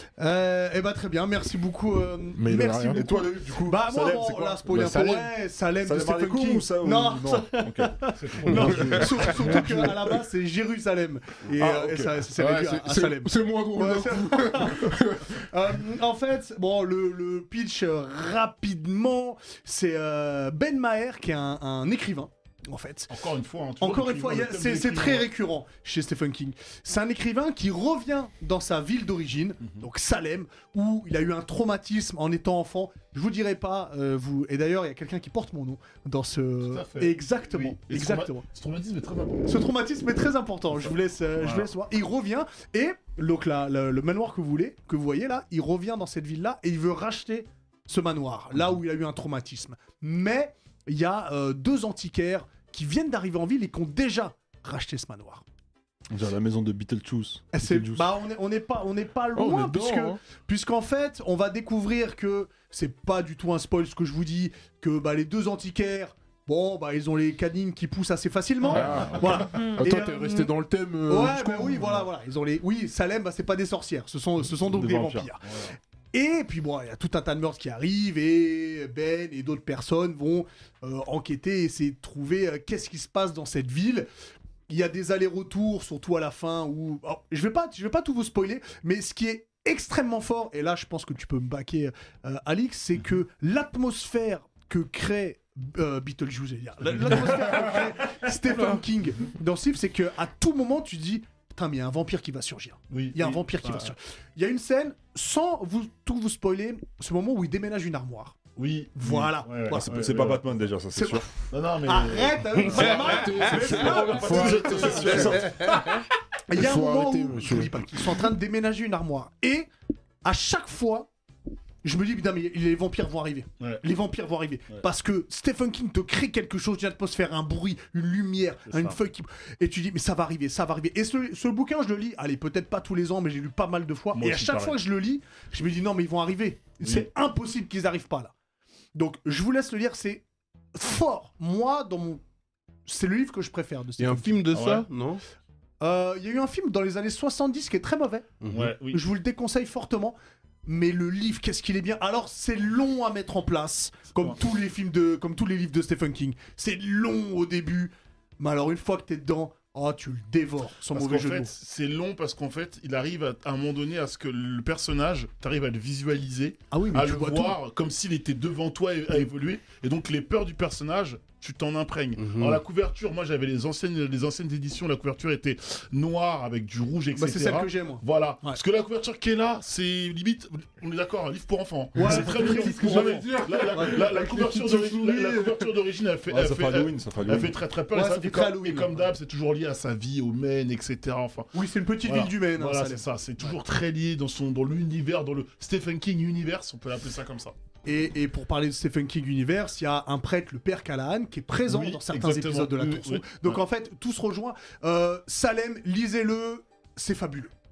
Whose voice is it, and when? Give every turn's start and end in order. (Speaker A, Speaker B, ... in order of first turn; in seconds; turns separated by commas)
Speaker A: 0.2-23.1, Speaker B: 2.4-3.2, Speaker C: 2.9-4.8, Speaker B: 4.7-5.3, Speaker C: 5.8-9.4, Speaker D: 8.2-9.5, Speaker B: 8.6-9.8, Speaker C: 11.6-12.2, Speaker B: 12.3-15.3, Speaker D: 23.1-25.3, Speaker A: 23.8-38.5, Speaker D: 36.6-39.5, Speaker A: 39.5-55.5, Speaker D: 41.4-41.7, Speaker C: 56.1-58.1, Speaker A: 57.5-70.5, Speaker B: 59.4-60.2, Speaker B: 68.7-72.0, Speaker D: 68.7-69.0, Speaker A: 71.1-75.5, Speaker C: 74.5-75.3, Speaker A: 76.1-84.1, Speaker A: 84.7-108.4, Speaker D: 102.9-103.9, Speaker D: 108.6-110.5, Speaker A: 109.0-110.3, Speaker C: 109.7-111.3, Speaker A: 110.9-115.4, Speaker D: 111.5-116.0, Speaker C: 112.8-115.7, Speaker B: 112.8-115.4, Speaker A: 116.5-119.7, Speaker B: 116.5-117.9, Speaker A: 120.2-121.1, Speaker A: 121.8-138.3, Speaker D: 128.7-129.0, Speaker D: 134.2-134.8, Speaker D: 136.8-137.1, Speaker A: 138.9-142.2, Speaker A: 142.9-144.4, Speaker E: 144.0-145.2, Speaker D: 144.5-144.9, Speaker A: 145.8-148.3, Speaker E: 148.4-148.7, Speaker D: 148.5-149.0, Speaker A: 148.9-161.5, Speaker D: 160.9-197.6, Speaker A: 166.7-167.6, Speaker E: 172.2-172.6, Speaker A: 177.2-178.6, Speaker A: 181.9-184.1, Speaker B: 182.0-185.7, Speaker C: 186.3-187.6, Speaker A: 187.9-189.1, Speaker A: 191.5-193.1, Speaker A: 197.8-207.5, Speaker D: 201.7-203.6